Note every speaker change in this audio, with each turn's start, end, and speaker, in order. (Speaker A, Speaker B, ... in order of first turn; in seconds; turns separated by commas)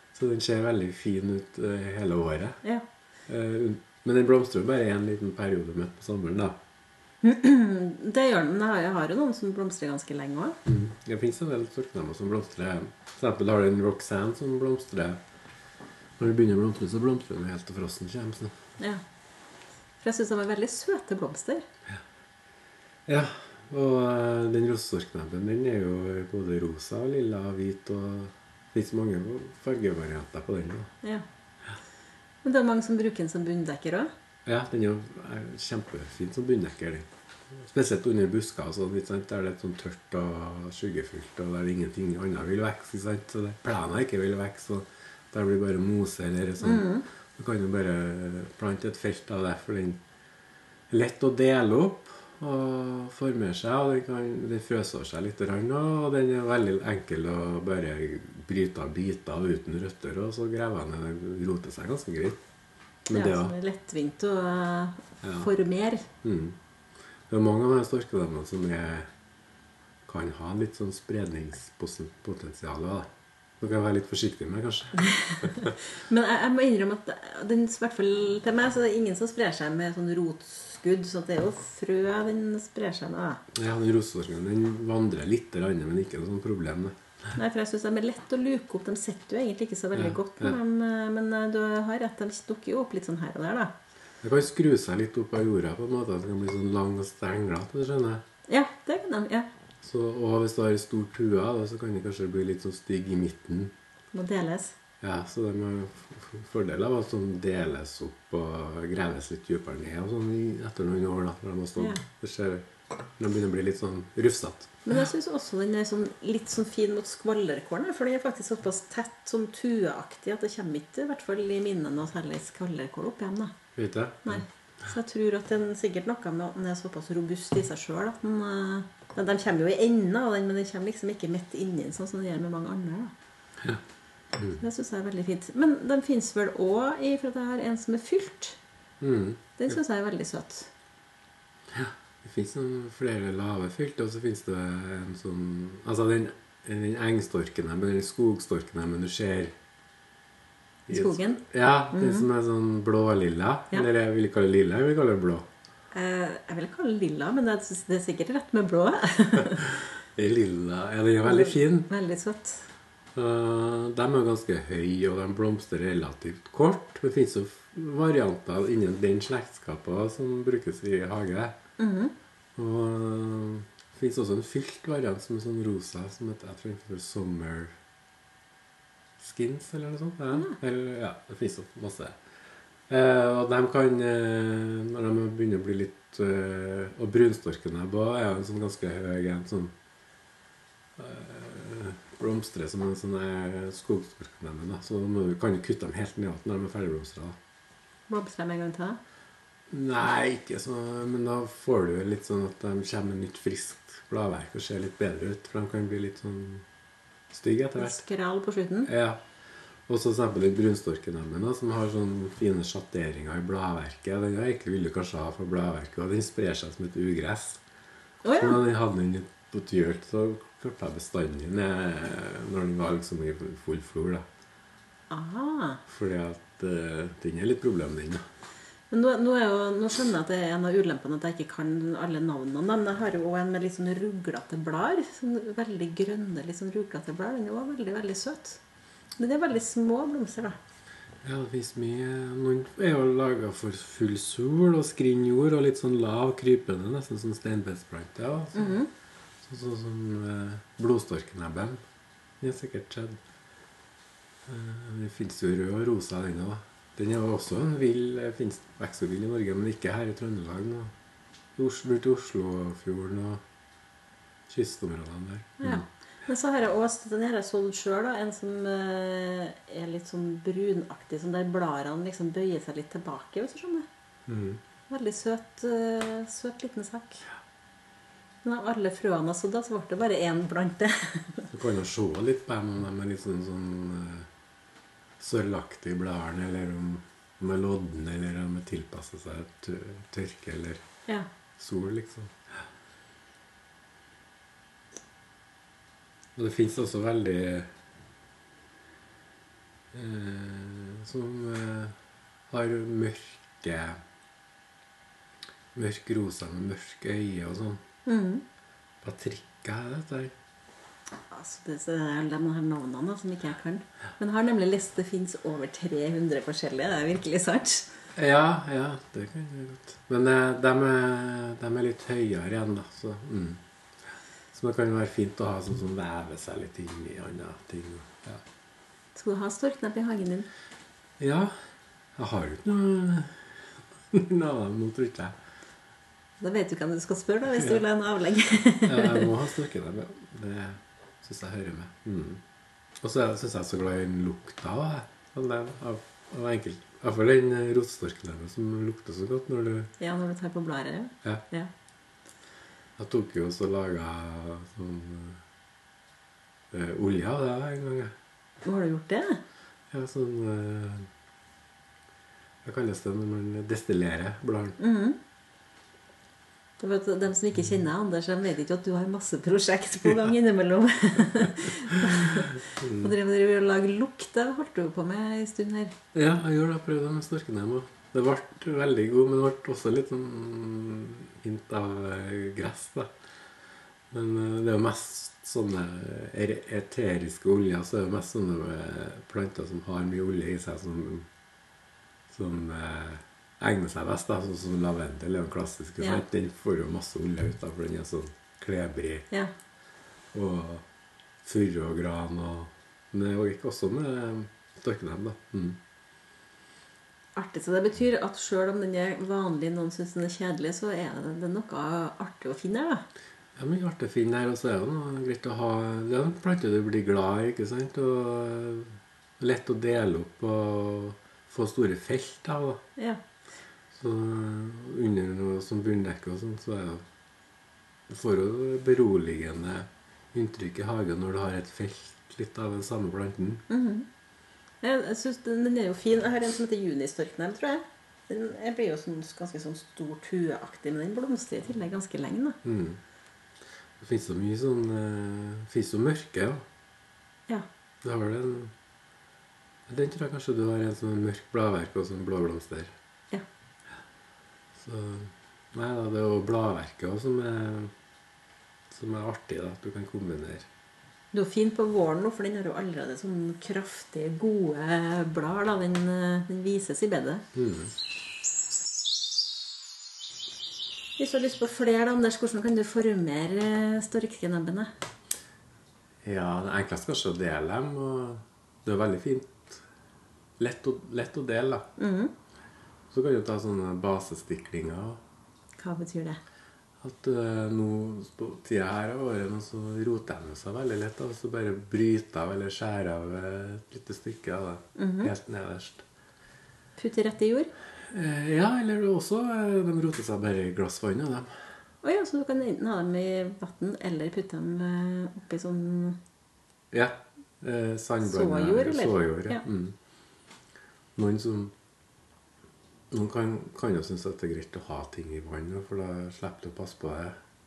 Speaker A: 0.1-2.6, Speaker A: 3.3-6.6, Speaker B: 7.2-10.6, Speaker A: 10.7-15.2, Speaker A: 16.2-18.5, Speaker B: 20.0-21.6, Speaker A: 23.1-30.9, Speaker B: 32.4-34.1, Speaker A: 34.5-50.0, Speaker B: 46.6-47.0, Speaker A: 50.9-62.4, Speaker A: 63.1-63.5, Speaker B: 63.1-66.1, Speaker A: 65.2-65.5, Speaker A: 66.2-66.6, Speaker A: 67.3-69.1, Speaker A: 70.0-75.7, Speaker B: 75.0-83.4, Speaker A: 83.5-86.9, Speaker B: 87.3-93.7, Speaker A: 89.9-90.6, Speaker A: 94.2-98.2, Speaker B: 98.5-99.5, Speaker A: 99.8-103.7, Speaker B: 104.1-104.8, Speaker A: 105.0-112.7, Speaker B: 111.8-112.0, Speaker A: 113.2-114.8, Speaker B: 114.8-123.5, Speaker A: 123.7-124.4, Speaker B: 124.2-133.1, Speaker A: 134.4-134.6, Speaker B: 134.5-138.6, Speaker A: 139.0-139.8, Speaker B: 139.6-140.7, Speaker A: 141.7-149.5, Speaker A: 150.9-155.5, Speaker B: 150.9-152.3, Speaker B: 155.9-159.8, Speaker A: 159.5-161.9, Speaker B: 161.2-162.7, Speaker A: 163.1-171.6, Speaker B: 171.8-172.1, Speaker A: 172.6-177.7, Speaker A: 179.2-182.2, Speaker A: 182.9-189.7, Speaker A: 191.0-197.4, Speaker B: 198.1-199.0, Speaker A: 199.7-206.6, Speaker A: 207.3-208.0, Speaker B: 207.8-208.9, Speaker A: 208.8-209.2, Speaker A: 209.9-217.6, Speaker B: 218.2-218.6, Speaker A: 218.3-224.2, Speaker B: 225.1-225.8, Speaker A: 225.9-228.2, Speaker B: 228.9-238.6, Speaker B: 239.2-240.6, Speaker A: 241.2-248.8, Speaker B: 248.5-248.9, Speaker A: 249.4-251.8, Speaker A: 252.4-253.2, Speaker A: 254.4-260.9, Speaker A: 261.6-263.4, Speaker A: 264.5-265.8, Speaker B: 265.6-273.9, Speaker A: 274.3-274.6, Speaker B: 274.9-277.2, Speaker B: 278.4-281.5, Speaker A: 281.5-284.3, Speaker A: 285.2-290.8, Speaker A: 291.6-292.4, Speaker A: 296.4-297.7, Speaker A: 299.9-301.9, Speaker A: 302.5-304.0, Speaker A: 305.7-307.8, Speaker B: 308.1-308.4, Speaker A: 309.0-310.3, Speaker B: 311.3-317.9, Speaker A: 318.1-323.6, Speaker A: 324.5-328.4, Speaker B: 329.1-330.5, Speaker A: 331.2-331.5, Speaker A: 332.2-333.6, Speaker A: 334.1-335.4, Speaker B: 336.4-339.3, Speaker A: 338.8-342.4, Speaker A: 343.0-349.9, Speaker B: 350.0-351.7, Speaker A: 353.0-355.4, Speaker A: 356.7-358.1, Speaker B: 358.6-359.4, Speaker A: 359.9-361.1, Speaker A: 362.6-364.8, Speaker B: 364.8-365.2, Speaker B: 366.8-375.9, Speaker A: 372.0-373.1, Speaker A: 376.1-383.1, Speaker A: 384.1-391.3, Speaker A: 392.3-399.2, Speaker A: 400.3-400.8, Speaker A: 401.4-405.8, Speaker B: 407.4-413.0, Speaker A: 413.6-422.8, Speaker A: 423.9-427.0, Speaker A: 428.1-433.6, Speaker B: 433.7-434.1, Speaker B: 434.8-442.6, Speaker A: 442.6-443.0, Speaker A: 444.0-446.6, Speaker A: 448.0-448.7, Speaker A: 449.9-452.9, Speaker A: 454.8-457.9, Speaker A: 458.9-460.7, Speaker B: 461.3-467.4, Speaker A: 467.5-467.9, Speaker B: 471.2-474.9, Speaker A: 476.2-479.8, Speaker A: 480.6-481.9, Speaker B: 482.0-482.3, Speaker A: 483.1-485.2, Speaker B: 485.8-486.4, Speaker A: 487.0-496.0, Speaker B: 494.9-495.3, Speaker B: 497.0-497.7, Speaker A: 498.1-501.5, Speaker B: 502.0-506.2, Speaker A: 506.9-509.9, Speaker B: 508.2-509.6, Speaker A: 511.1-511.7, Speaker A: 513.1-517.4